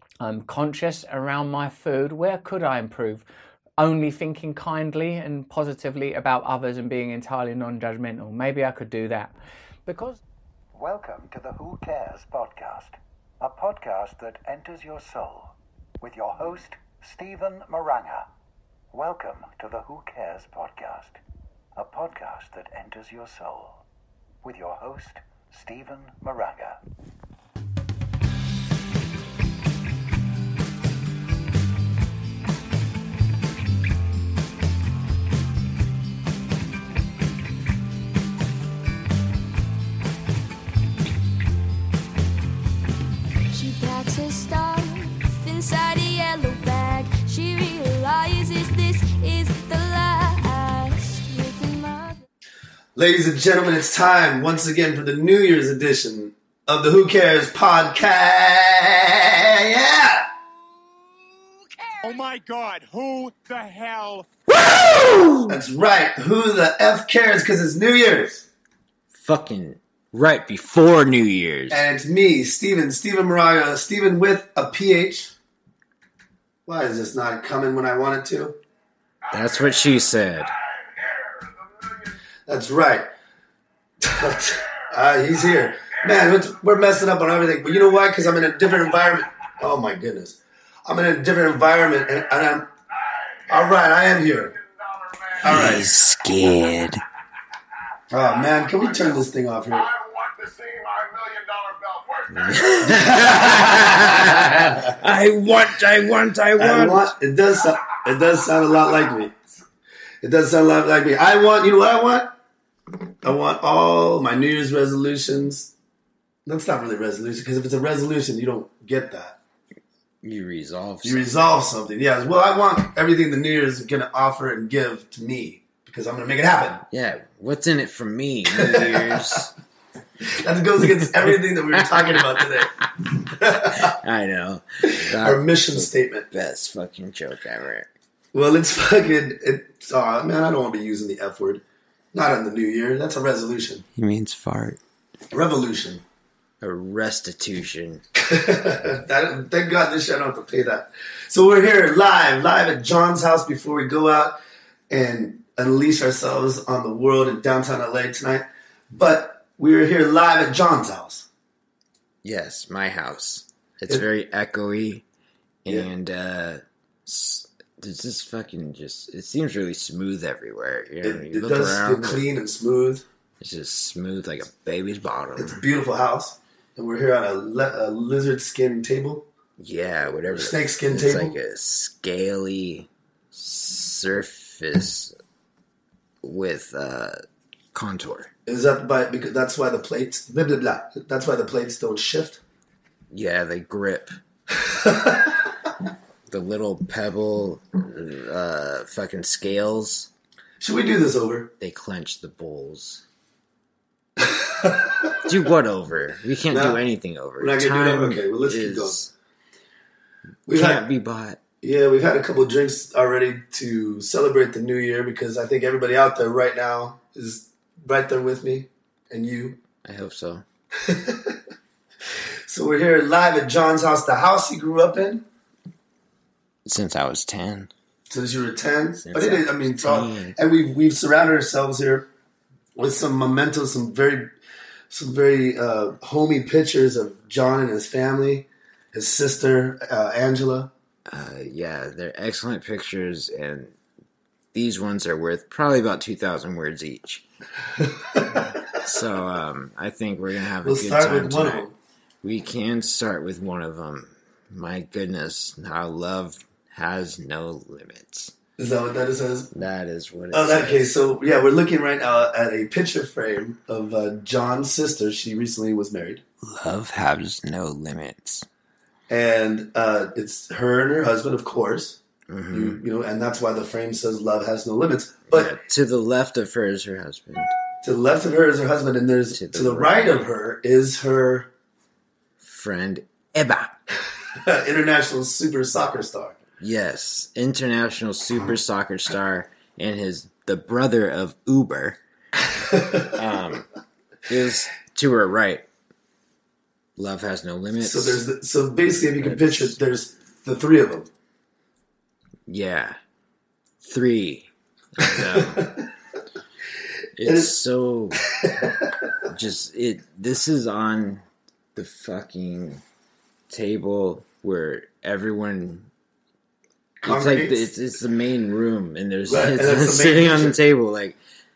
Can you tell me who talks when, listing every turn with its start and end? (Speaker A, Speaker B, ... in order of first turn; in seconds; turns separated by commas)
Speaker A: 0.2-3.2, Speaker A: 3.8-9.3, Speaker A: 9.8-10.2, Speaker B: 10.7-18.3, Speaker B: 18.9-21.2, Speaker B: 21.8-23.8, Speaker B: 24.4-26.8, Speaker C: 43.5-52.2, Speaker D: 53.0-60.3, Speaker E: 62.0-64.3, Speaker F: 64.5-65.6, Speaker D: 65.5-68.4, Speaker F: 69.1-71.8, Speaker D: 71.7-75.3, Speaker D: 76.7-78.6, Speaker G: 79.3-79.9, Speaker F: 79.3-80.5, Speaker G: 80.5-82.1, Speaker D: 82.5-83.1, Speaker D: 84.0-92.7, Speaker G: 87.9-89.5, Speaker G: 93.0-95.8, Speaker D: 93.5-94.5, Speaker D: 95.4-95.9, Speaker F: 95.4-97.0, Speaker D: 98.1-99.8, Speaker G: 98.2-104.4, Speaker F: 102.5-107.1, Speaker D: 102.8-104.7, Speaker D: 106.6-109.3, Speaker G: 108.2-109.2, Speaker D: 110.2-112.3, Speaker D: 113.2-115.7, Speaker D: 116.5-119.3, Speaker F: 120.2-121.3, Speaker D: 121.0-126.8, Speaker F: 126.8-129.5, Speaker D: 128.5-129.3, Speaker D: 130.2-132.7, Speaker F: 131.2-132.9, Speaker D: 133.3-133.9, Speaker F: 133.7-137.9, Speaker D: 134.9-136.2, Speaker D: 138.3-141.6, Speaker D: 142.1-143.8, Speaker F: 143.9-144.8, Speaker D: 145.3-146.0, Speaker F: 146.6-148.0, Speaker D: 148.2-154.4, Speaker D: 154.9-161.2, Speaker F: 162.2-165.0, Speaker F: 165.6-172.2, Speaker D: 171.0-173.0, Speaker F: 173.4-175.6, Speaker D: 175.4-179.3, Speaker F: 179.6-185.1, Speaker D: 180.3-181.3, Speaker F: 186.2-187.2, Speaker F: 187.7-188.3, Speaker D: 188.4-192.4, Speaker F: 193.1-194.1, Speaker D: 194.8-195.3, Speaker F: 196.3-200.1, Speaker D: 200.6-201.5, Speaker F: 201.6-203.0, Speaker D: 204.2-205.1, Speaker F: 205.2-209.1, Speaker D: 206.5-206.8, Speaker D: 207.4-209.0, Speaker D: 210.5-210.8, Speaker F: 210.5-211.4, Speaker D: 211.6-219.6, Speaker F: 219.8-220.4, Speaker D: 220.8-221.4, Speaker D: 222.5-225.2, Speaker F: 226.7-227.7, Speaker D: 228.1-232.1, Speaker F: 229.0-230.3, Speaker D: 232.8-234.3, Speaker D: 234.9-240.7, Speaker F: 241.1-243.7, Speaker F: 244.5-247.2, Speaker D: 247.9-248.3, Speaker F: 248.7-251.7, Speaker D: 250.6-251.7, Speaker F: 252.2-258.3, Speaker D: 258.6-259.5, Speaker F: 259.5-260.9, Speaker D: 260.3-266.2, Speaker F: 266.4-268.4, Speaker D: 269.1-272.0, Speaker F: 272.3-272.8, Speaker D: 272.5-275.5, Speaker F: 275.3-277.5, Speaker D: 277.8-281.5, Speaker F: 279.3-280.3, Speaker F: 282.4-283.8, Speaker D: 284.4-286.4, Speaker F: 286.6-292.0, Speaker D: 292.7-293.1, Speaker F: 293.1-293.7, Speaker F: 294.3-295.6, Speaker F: 297.0-298.2, Speaker D: 297.8-301.1, Speaker F: 299.2-299.8, Speaker F: 302.5-303.0, Speaker F: 303.8-305.7, Speaker D: 305.0-305.9, Speaker F: 307.2-308.3, Speaker D: 307.2-307.5, Speaker D: 308.4-308.9, Speaker F: 309.3-311.2, Speaker F: 311.7-312.8, Speaker F: 313.5-315.9, Speaker D: 317.0-317.6, Speaker F: 317.0-321.2, Speaker D: 319.3-320.6